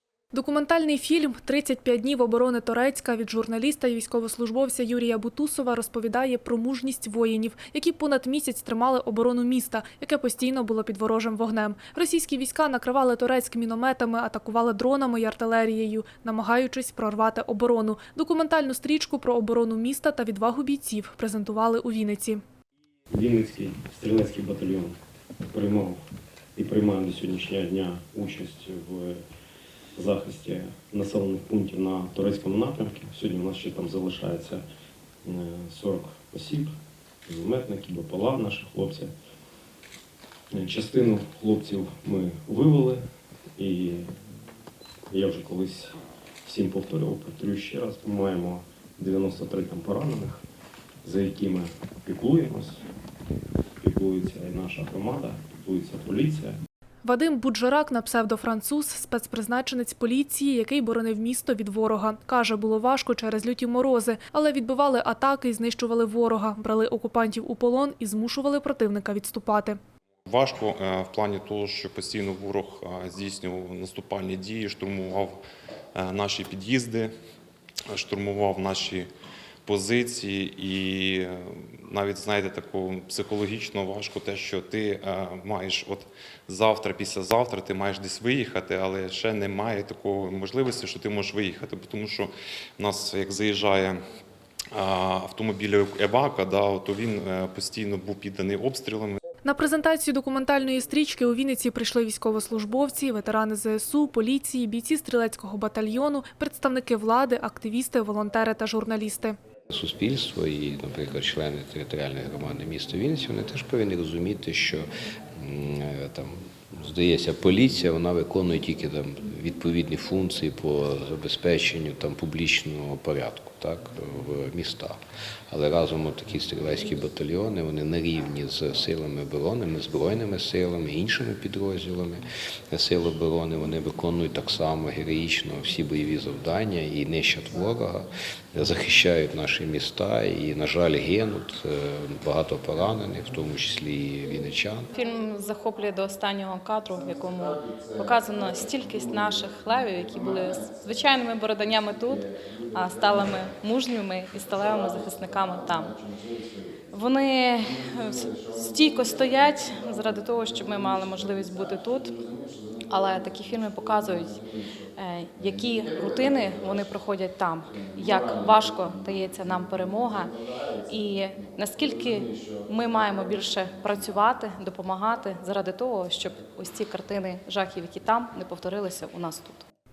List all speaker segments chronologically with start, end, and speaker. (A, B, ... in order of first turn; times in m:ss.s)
0:00.3-0:22.4 A
0:23.1-0:26.0 B
0:26.6-0:29.2 B
0:30.0-0:34.6 B
0:35.2-0:36.7 B
0:37.3-0:39.1 B
0:40.5-0:43.0 B
0:43.6-0:44.1 B
0:45.1-0:50.4 B
0:51.0-0:52.8 B
0:53.8-0:56.6 B
0:57.0-1:09.8 A
1:10.3-1:15.4 C
1:16.0-1:17.1 C
1:17.9-1:19.1 C
1:19.7-1:34.0 C
1:34.7-1:39.2 C
1:39.4-1:49.4 A
1:49.7-2:05.0 D
2:05.5-2:24.9 D
2:25.0-2:36.0 E
2:36.9-2:42.2 E
2:42.8-2:44.4 E
2:45.0-2:50.4 E
2:50.9-2:59.6 E